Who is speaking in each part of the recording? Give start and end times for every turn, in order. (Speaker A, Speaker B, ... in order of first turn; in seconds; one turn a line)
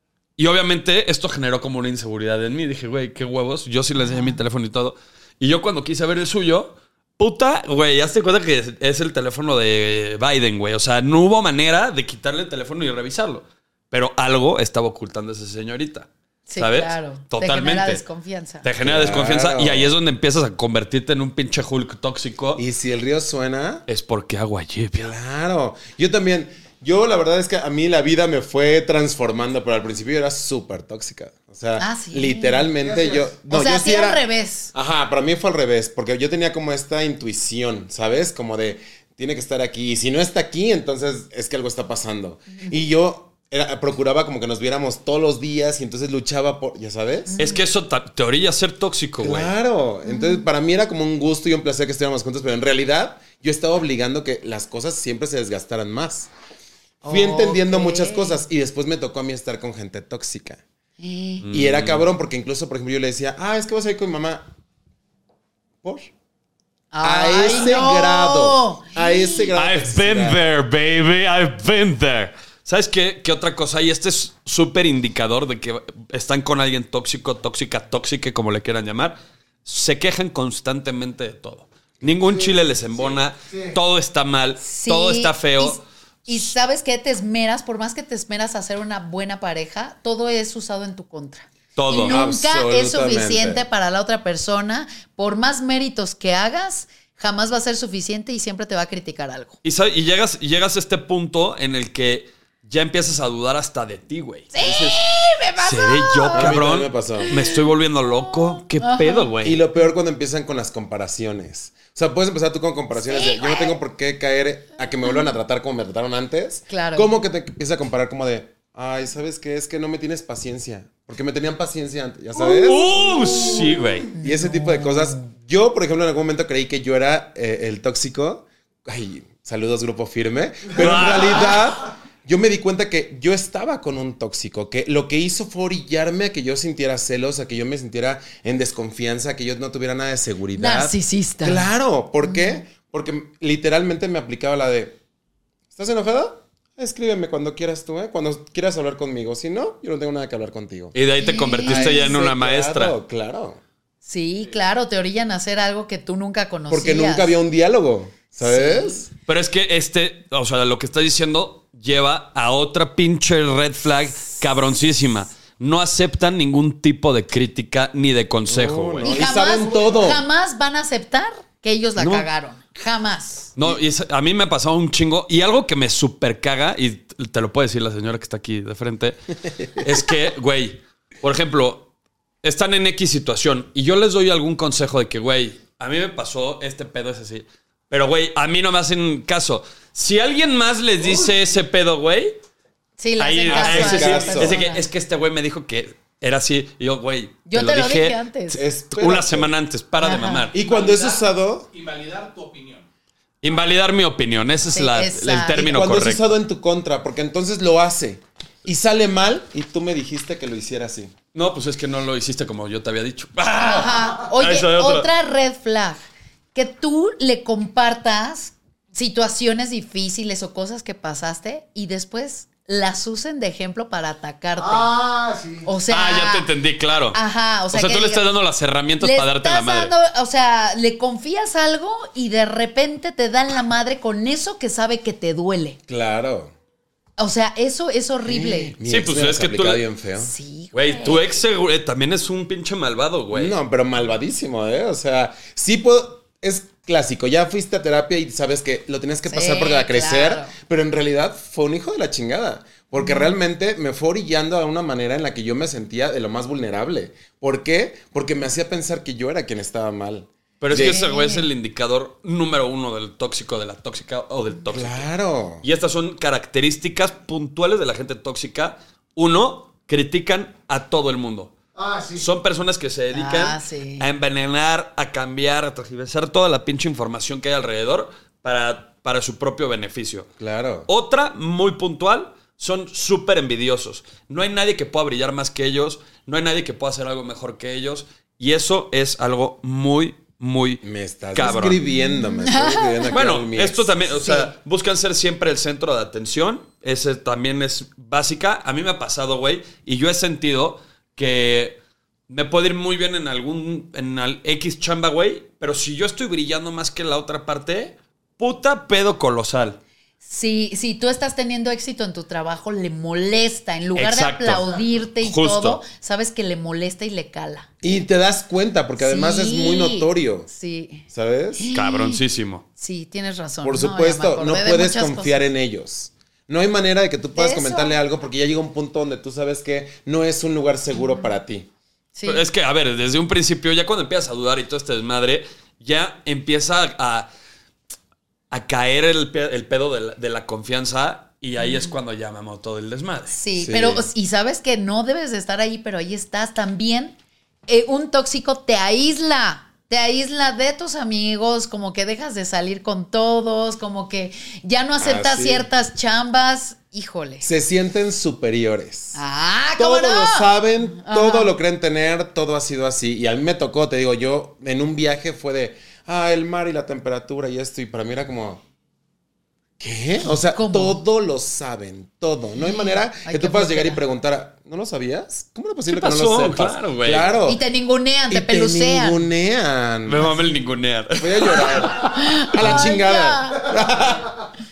Speaker A: 0.4-18.0
Speaker B: 4.0-4.4
Speaker B: 16.5-18.7
Speaker A: 18.6-22.6
Speaker C: 18.8-19.9
Speaker C: 22.6-23.8
Speaker A: 23.9-25.1
Speaker C: 25.0-47.3
Speaker B: 31.8-32.7
Speaker D: 32.8-33.3
Speaker B: 33.5-34.7
Speaker B: 47.3-47.6
Speaker A: 47.4-49.5
Speaker C: 49.2-56.3
Speaker B: 50.1-50.4
Speaker B: 57.0-58.4
Speaker C: 57.0-60.6
Speaker B: 61.0-61.5
Speaker A: 61.4-62.1
Speaker C: 61.5-64.5
Speaker C: 65.8-66.1
Speaker B: 66.9-69.5
Speaker C: 67.0-70.4
Speaker A: 69.5-85.8
Speaker D: 83.5-83.8
Speaker B: 84.6-99.6
Speaker A: 91.8-92.2
Speaker C: 91.9-93.6
Speaker A: 99.6-105.0
Speaker B: 104.5-106.5
Speaker A: 105.6-109.6
Speaker C: 106.3-107.4
Speaker B: 107.2-107.7
Speaker B: 108.5-109.3
Speaker C: 109.4-122.9
Speaker B: 113.0-113.8
Speaker B: 116.7-117.1
Speaker A: 122.4-124.1
Speaker B: 123.5-125.2
Speaker C: 124.2-145.0
Speaker A: 130.8-131.6
Speaker B: 140.6-141.7
Speaker B: 142.2-142.6
Speaker C: 145.7-151.0
Speaker A: 150.9-153.0
Speaker B: 151.2-152.1
Speaker C: 151.6-153.6
Speaker B: 154.0-157.4
Speaker C: 156.7-159.1
Speaker B: 158.4-159.0
Speaker A: 159.2-169.2
Speaker C: 168.5-170.2
Speaker B: 169.0-173.5
Speaker A: 172.0-172.3
Speaker A: 173.6-181.9
Speaker A: 182.4-192.4
Speaker B: 193.0-194.8
Speaker A: 193.2-198.2
Speaker C: 193.5-194.6
Speaker E: 194.0-194.5
Speaker B: 197.5-198.6
Speaker C: 198.5-199.5
Speaker A: 198.9-200.5
Speaker B: 200.0-200.5
Speaker C: 200.5-201.7
Speaker E: 200.6-202.9
Speaker A: 203.4-206.2
Speaker B: 204.7-205.7
Speaker C: 205.6-211.1
Speaker A: 211.3-215.1
Speaker B: 213.6-216.0
Speaker B: 216.6-224.9
Speaker D: 224.6-225.7
Speaker B: 225.7-226.5
Speaker A: 225.9-229.9
Speaker B: 227.1-228.2
Speaker B: 229.0-235.8
Speaker C: 235.9-236.5
Speaker B: 237.2-238.8
Speaker C: 238.3-240.3
Speaker A: 238.8-239.8
Speaker B: 240.2-241.4
Speaker A: 240.7-243.6
Speaker C: 243.3-261.1
Speaker B: 249.3-250.5
Speaker B: 253.0-253.3
Speaker A: 260.6-265.1
Speaker B: 260.7-261.5
Speaker C: 264.7-265.6
Speaker A: 265.6-271.5
Speaker D: 271.8-272.3
Speaker A: 272.2-280.3
Speaker B: 273.1-274.1
Speaker C: 280.4-280.9
Speaker A: 280.9-290.8
Speaker C: 290.8-294.0
Speaker A: 291.3-291.8
Speaker B: 291.7-293.2
Speaker A: 293.1-301.8
Speaker B: 294.2-294.5
Speaker A: 302.3-309.8
Speaker B: 310.2-317.7
Speaker A: 313.9-315.8
Speaker C: 317.8-320.5
Speaker B: 319.0-322.2
Speaker C: 321.1-321.7
Speaker A: 321.7-322.6
Speaker B: 322.8-325.5
Speaker C: 323.6-331.7
Speaker B: 327.4-328.0
Speaker B: 332.2-332.5
Speaker A: 332.2-337.3
Speaker A: 338.5-343.4
Speaker B: 341.6-341.9
Speaker B: 343.3-347.2
Speaker C: 343.6-344.1
Speaker B: 347.7-357.5
Speaker C: 355.0-355.7
Speaker C: 357.4-359.2
Speaker B: 359.1-361.5
Speaker C: 359.8-368.6
Speaker C: 369.8-377.6
Speaker B: 370.5-371.0
Speaker B: 372.7-374.0
Speaker A: 375.9-377.3
Speaker B: 377.4-379.2
Speaker C: 378.3-380.4
Speaker A: 380.1-382.9
Speaker C: 381.1-384.3
Speaker B: 382.1-383.8